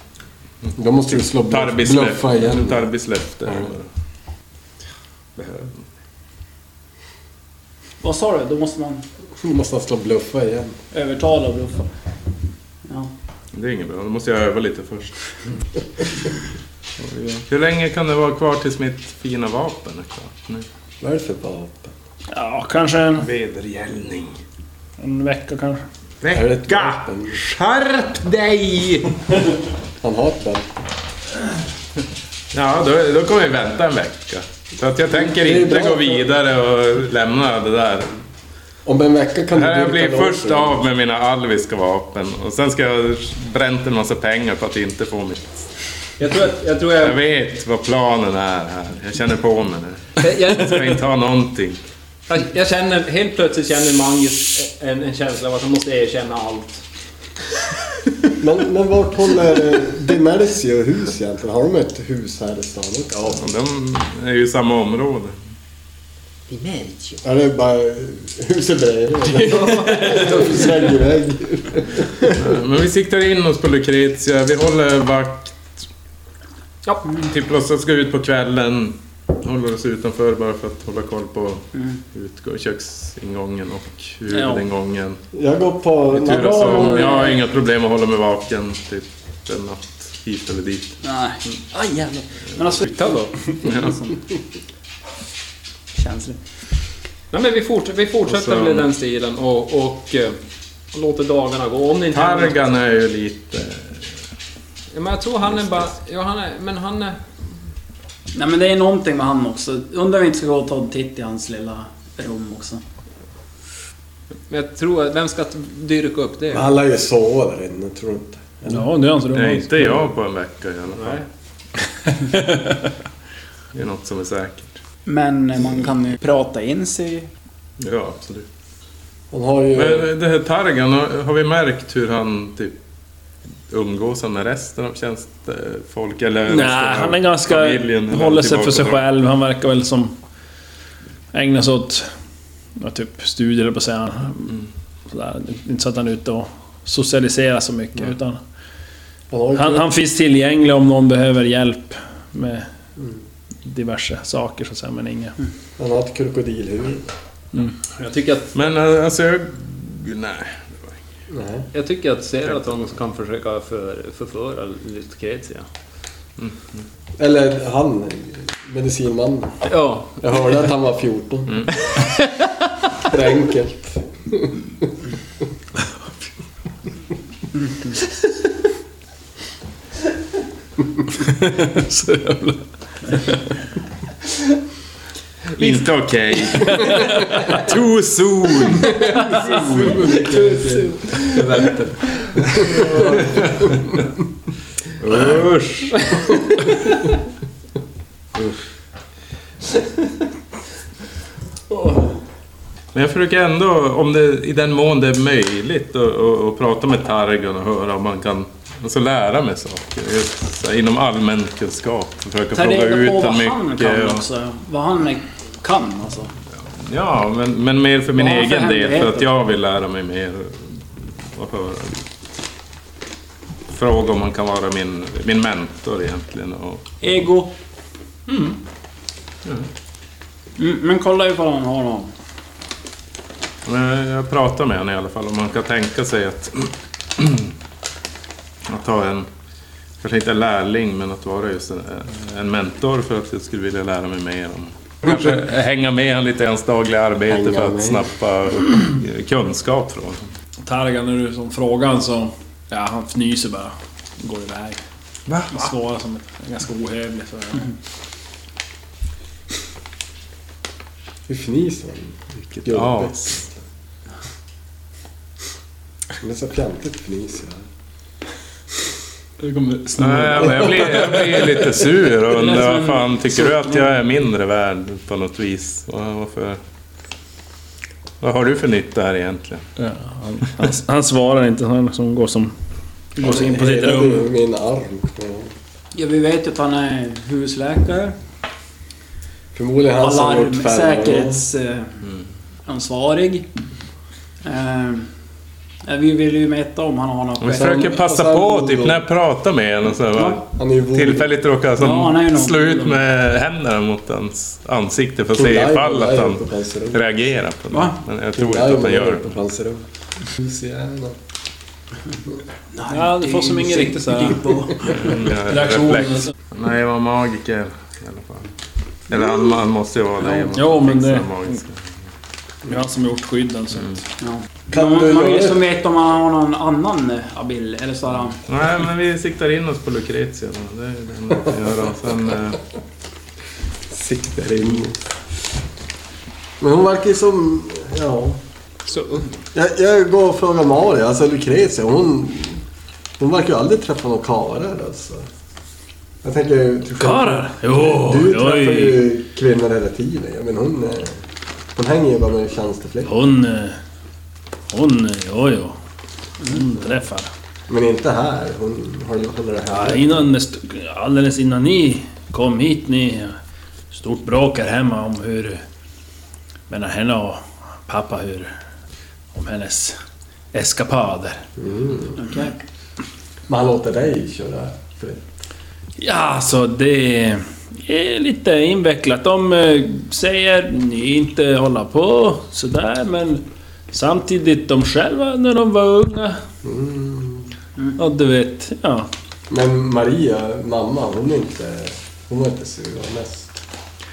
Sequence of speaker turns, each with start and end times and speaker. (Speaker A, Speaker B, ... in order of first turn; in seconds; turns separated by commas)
Speaker A: 0.7-3.9, Speaker B: 0.8-2.9, Speaker A: 5.3-5.8, Speaker C: 8.0-9.0, Speaker B: 9.4-10.8, Speaker C: 10.9-11.9, Speaker C: 12.8-13.1, Speaker A: 13.5-15.2, Speaker A: 17.4-20.6, Speaker B: 21.0-21.9, Speaker D: 22.3-23.2, Speaker A: 23.1-24.4, Speaker D: 25.0-25.8, Speaker A: 26.2-29.2, Speaker B: 26.3-27.4, Speaker B: 30.0-30.8, Speaker A: 32.5-38.2, Speaker B: 35.2-36.2, Speaker B: 38.8-40.8, Speaker A: 39.5-45.7, Speaker E: 46.2-47.2, Speaker A: 46.9-51.8, Speaker E: 50.2-51.0, Speaker E: 52.3-56.8, Speaker B: 58.4-63.4, Speaker A: 63.3-65.3, Speaker E: 66.5-67.2, Speaker B: 67.2-72.4, Speaker E: 69.3-70.9, Speaker A: 72.4-75.8, Speaker A: 77.2-85.2, Speaker B: 85.3-87.2, Speaker A: 86.1-91.0, Speaker C: 86.8-87.3, Speaker C: 91.0-94.2, Speaker E: 92.8-93.3, Speaker A: 93.6-94.0, Speaker C: 95.9-96.4, Speaker E: 97.3-100.4, Speaker A: 98.3-98.9, Speaker E: 100.9-102.7, Speaker A: 102.1-104.0, Speaker E: 104.9-107.2, Speaker A: 105.4-105.9, Speaker C: 108.3-112.8, Speaker E: 114.5-116.7, Speaker B: 116.5-118.8, Speaker D: 118.7-120.0, Speaker A: 119.3-121.2, Speaker E: 120.9-121.2, Speaker D: 122.2-122.7, Speaker A: 123.7-124.8, Speaker C: 125.0-127.3, Speaker A: 127.8-128.5, Speaker B: 129.3-130.1, Speaker A: 129.7-132.8, Speaker A: 133.7-139.0, Speaker D: 136.4-140.2, Speaker D: 141.3-142.1, Speaker D: 142.8-144.6, Speaker D: 145.1-148.4, Speaker B: 149.3-149.9, Speaker D: 149.6-152.7, Speaker D: 153.6-155.3, Speaker B: 155.8-157.1, Speaker E: 157.9-158.5, Speaker A: 158.5-160.9, Speaker B: 161.3-161.7, Speaker E: 161.7-165.7, Speaker A: 166.4-166.8, Speaker B: 167.2-169.6, Speaker E: 169.7-170.3, Speaker B: 170.2-171.7, Speaker E: 171.9-172.5, Speaker B: 173.0-174.9, Speaker D: 181.5-182.6, Speaker A: 185.6-189.9, Speaker E: 185.6-185.8, Speaker E: 186.3-186.9, Speaker E: 188.9-191.8, Speaker B: 189.2-193.2, Speaker A: 192.9-193.8, Speaker A: 195.0-196.1, Speaker E: 196.1-196.9, Speaker A: 202.9-214.2, Speaker C: 212.5-216.3, Speaker A: 216.7-222.1, Speaker C: 218.1-219.3, Speaker A: 223.7-226.9, Speaker C: 227.0-227.5, Speaker C: 230.6-232.1, Speaker A: 233.6-237.5, Speaker A: 238.7-239.3, Speaker A: 240.0-250.3, Speaker B: 247.3-248.1, Speaker D: 250.6-254.8, Speaker A: 255.3-255.7, Speaker D: 255.5-257.7, Speaker B: 261.3-263.5, Speaker A: 262.5-263.4, Speaker B: 266.2-267.6, Speaker D: 269.5-270.0, Speaker A: 270.0-276.6, Speaker A: 278.2-279.6, Speaker D: 279.8-282.5, Speaker D: 283.1-284.3, Speaker B: 283.2-285.5, Speaker C: 285.9-288.1, Speaker B: 289.5-291.4, Speaker C: 290.0-292.0, Speaker C: 292.6-293.5, Speaker C: 294.4-295.1, Speaker C: 295.8-297.9, Speaker A: 297.4-309.3, Speaker B: 297.6-299.0, Speaker B: 300.5-301.3, Speaker C: 301.8-303.0, Speaker B: 305.3-307.0, Speaker C: 307.7-308.0, Speaker B: 308.3-311.2, Speaker C: 312.8-315.1, Speaker D: 312.9-314.6, Speaker A: 314.9-318.5, Speaker D: 315.5-316.3, Speaker A: 319.1-321.8, Speaker D: 320.5-321.6, Speaker D: 322.7-324.0, Speaker C: 324.2-328.4, Speaker B: 324.7-325.6, Speaker A: 328.5-332.6, Speaker B: 333.9-335.0, Speaker B: 336.6-338.4, Speaker E: 338.9-339.2, Speaker B: 339.5-342.6, Speaker B: 343.2-345.2, Speaker B: 346.2-351.2, Speaker D: 346.9-349.0, Speaker B: 351.7-353.1, Speaker D: 353.1-353.8, Speaker D: 354.7-355.8, Speaker D: 356.4-357.3, Speaker B: 357.7-360.2, Speaker D: 359.7-363.4, Speaker D: 363.9-365.6, Speaker D: 366.7-368.5, Speaker D: 369.3-370.0, Speaker D: 370.5-371.4, Speaker B: 371.6-372.2, Speaker C: 372.2-372.5, Speaker B: 373.5-375.4, Speaker D: 376.0-386.4, Speaker B: 386.6-387.5, Speaker D: 388.0-389.1, Speaker B: 389.5-393.6